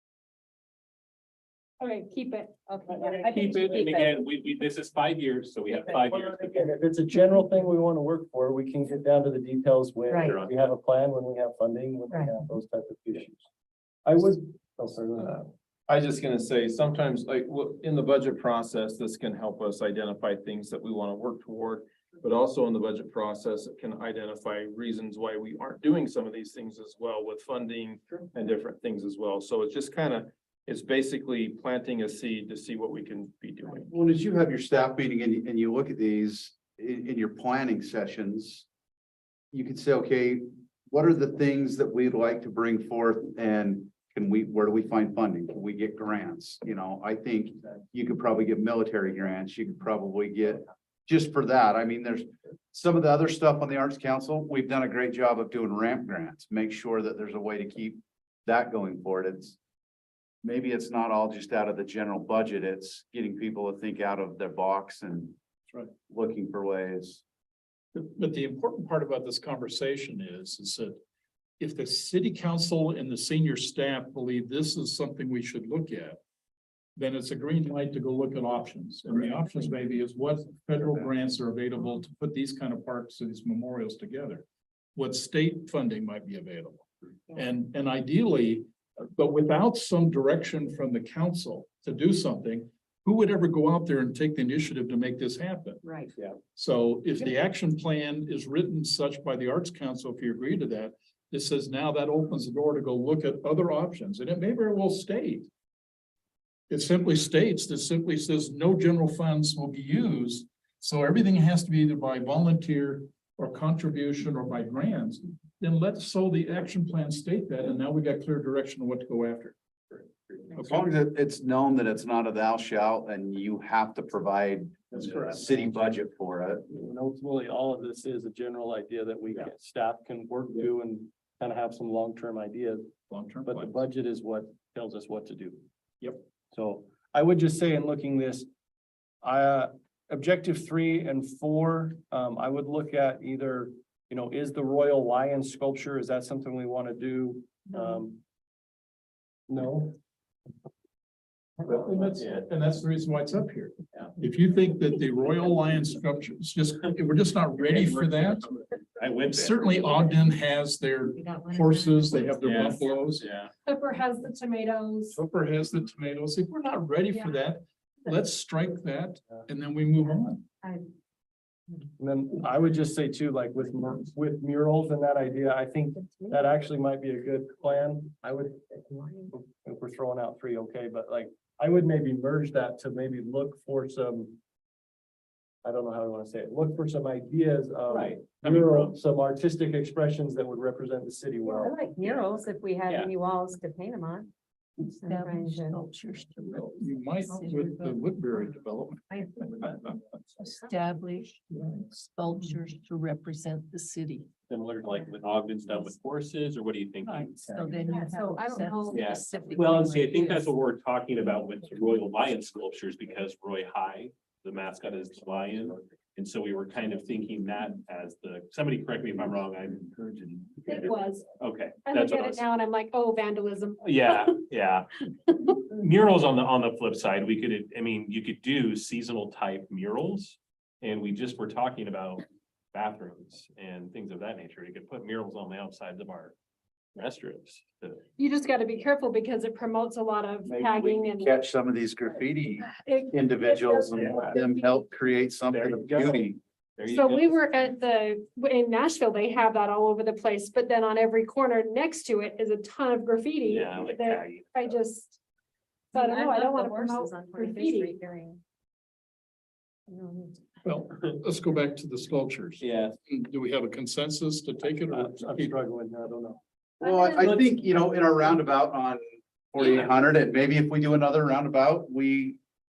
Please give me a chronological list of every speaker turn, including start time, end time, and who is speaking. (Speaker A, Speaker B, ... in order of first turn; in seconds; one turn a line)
Speaker A: 1.8-4.2
Speaker B: 2.8-3.2
Speaker C: 3.1-6.7
Speaker D: 6.0-13.4
Speaker B: 10.1-10.4
Speaker C: 10.3-10.5
Speaker D: 14.1-15.5
Speaker E: 15.9-33.9
Speaker F: 33.9-38.7
Speaker F: 39.5-59.6
Speaker F: 60.4-65.4
Speaker F: 66.1-67.2
Speaker G: 67.9-71.0
Speaker G: 71.6-76.2
Speaker G: 77.0-84.5
Speaker G: 85.0-95.8
Speaker B: 95.8-96.1
Speaker G: 96.5-105.5
Speaker G: 106.7-119.5
Speaker G: 120.5-120.9
Speaker F: 120.6-126.7
Speaker D: 126.7-135.6
Speaker G: 133.1-133.8
Speaker D: 136.5-138.5
Speaker D: 139.2-148.2
Speaker D: 149.5-150.0
Speaker G: 151.6-158.5
Speaker C: 152.2-152.4
Speaker C: 158.6-159.7
Speaker G: 159.3-163.3
Speaker B: 161.2-162.4
Speaker C: 162.4-163.5
Speaker A: 163.7-165.2
Speaker G: 165.1-170.4
Speaker A: 167.1-167.4
Speaker D: 172.0-178.8
Speaker B: 176.0-176.6
Speaker B: 178.8-179.3
Speaker D: 179.3-184.4
Speaker D: 185.6-191.8
Speaker C: 187.9-189.0
Speaker B: 191.5-194.3
Speaker C: 192.0-192.3
Speaker B: 194.8-195.9
Speaker H: 195.0-196.8
Speaker G: 196.5-199.7
Speaker H: 197.3-197.9
Speaker H: 200.4-201.3
Speaker G: 201.5-201.8
Speaker H: 201.9-204.3
Speaker C: 204.5-208.0
Speaker H: 207.2-210.3
Speaker B: 207.9-210.1
Speaker C: 208.9-222.4
Speaker A: 220.7-221.3
Speaker A: 221.8-224.4
Speaker C: 223.8-224.9
Speaker C: 225.5-236.3
Speaker C: 237.0-238.1
Speaker A: 238.2-241.4
Speaker F: 240.5-246.4
Speaker A: 242.6-244.8
Speaker C: 243.9-244.4
Speaker C: 245.5-247.6
Speaker A: 246.8-255.2
Speaker C: 253.5-254.5
Speaker A: 255.9-258.0
Speaker B: 255.9-258.4
Speaker B: 259.9-260.4
Speaker G: 260.6-265.6
Speaker C: 262.6-263.0
Speaker D: 264.8-266.4
Speaker A: 266.8-267.4
Speaker F: 266.8-269.0
Speaker F: 269.5-272.4